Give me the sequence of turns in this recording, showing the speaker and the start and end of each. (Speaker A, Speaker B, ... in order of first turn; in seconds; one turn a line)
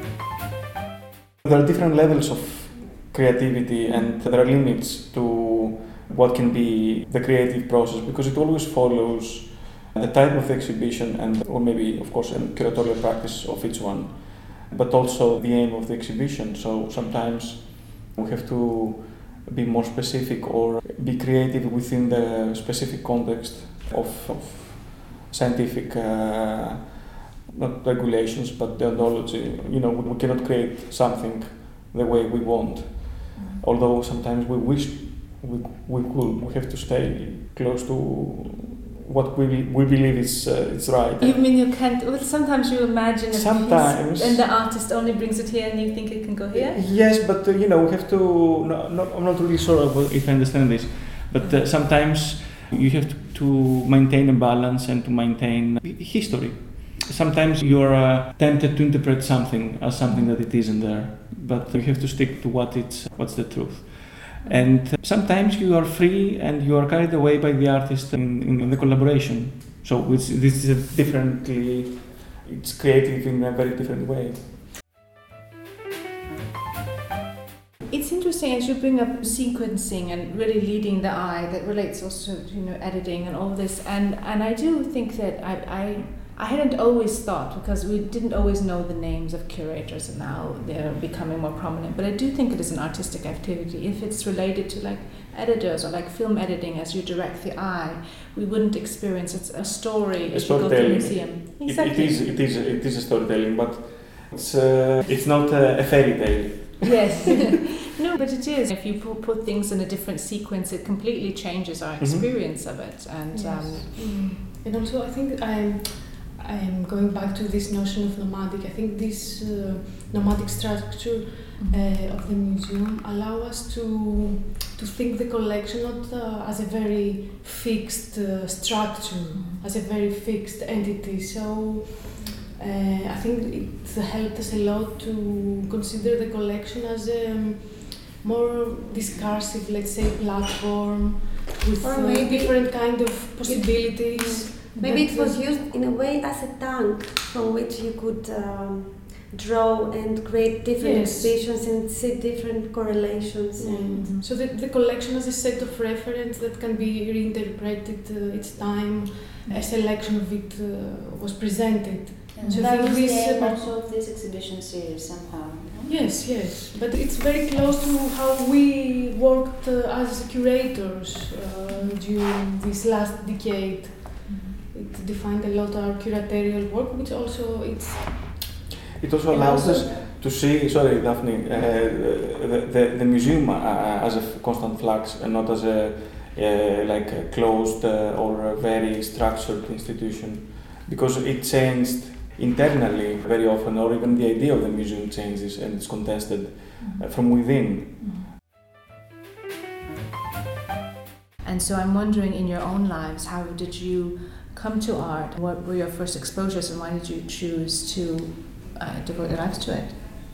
Speaker A: 1.4-41.4
Speaker B: 33.4-33.6
Speaker B: 41.2-46.8
Speaker A: 43.3-44.5
Speaker A: 46.5-74.6
Speaker B: 60.1-60.3
Speaker B: 64.4-64.8
Speaker B: 77.9-102.3
Speaker A: 100.2-107.2
Speaker B: 106.8-113.9
Speaker A: 112.0-112.6
Speaker C: 113.3-145.4
Speaker B: 121.6-122.0
Speaker B: 129.3-129.6
Speaker D: 141.8-154.2
Speaker C: 150.8-151.3
Speaker C: 153.6-163.6
Speaker B: 153.9-154.2
Speaker E: 162.3-166.1
Speaker B: 162.4-162.7
Speaker C: 165.9-174.2
Speaker B: 174.2-174.6
Speaker C: 174.7-178.1
Speaker A: 179.0-198.0
Speaker B: 196.8-197.1
Speaker B: 198.0-198.3
Speaker B: 201.4-210.2